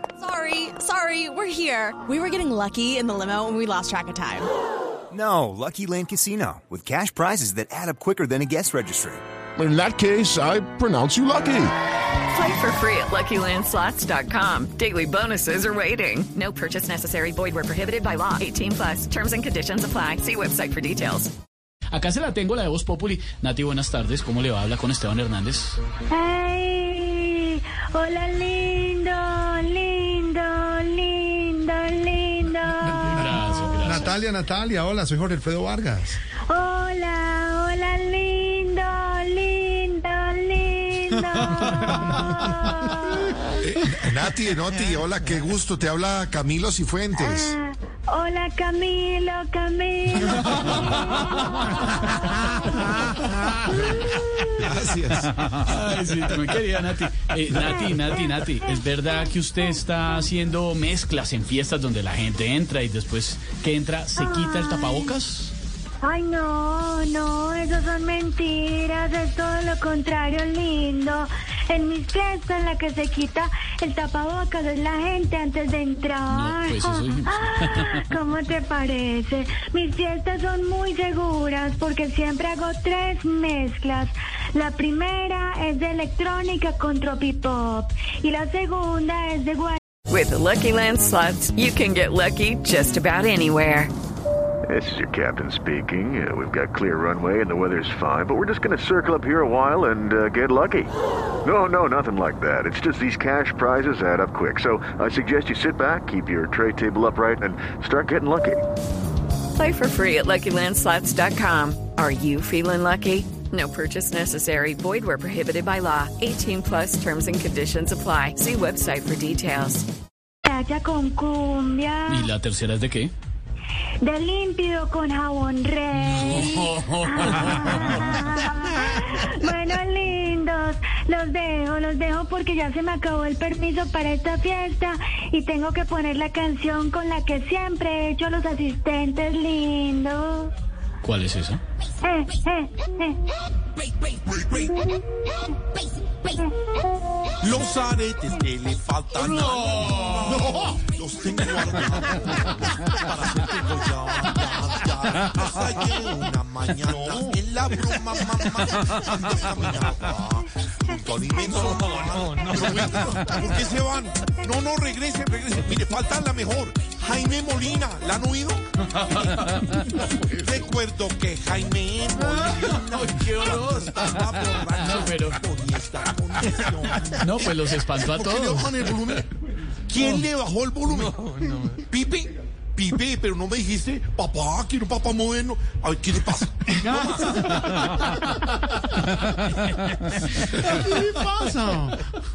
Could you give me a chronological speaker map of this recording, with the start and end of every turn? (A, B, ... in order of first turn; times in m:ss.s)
0:00.2-0:04.5 A
0:05.1-0:09.2 B
0:09.6-0:11.7 C
0:12.3-0:21.3 D
0:21.9-0:25.8 E
0:26.1-0:33.1 F
0:32.6-0:36.2 G
0:33.0-0:34.1 E
0:36.5-0:43.4 F
0:42.0-0:42.3 G
0:43.6-0:47.5 H
0:47.2-0:51.5 F
0:50.5-0:50.8 E
0:54.6-0:55.2 H
0:55.2-1:05.5 E
1:04.2-1:05.1 F
1:06.0-1:29.8 F
1:16.3-1:18.0 E
1:30.1-1:33.9 D
1:34.7-1:40.9 I
1:41.4-1:48.6 I
1:49.5-1:59.8 D
2:00.4-2:02.3 F
2:02.1-2:03.1 E
2:04.0-2:20.5 F
2:05.9-2:08.3 E
2:21.0-2:21.6 E
2:22.0-2:23.2 F
2:24.2-2:24.6 J
2:27.4-2:59.3 J
2:36.9-2:37.3 G
2:49.0-2:49.9 E
2:52.2-2:55.4 E
2:57.2-2:58.7 E
2:59.9-3:08.0 J
3:06.7-3:07.6 G
3:10.6-3:12.0 G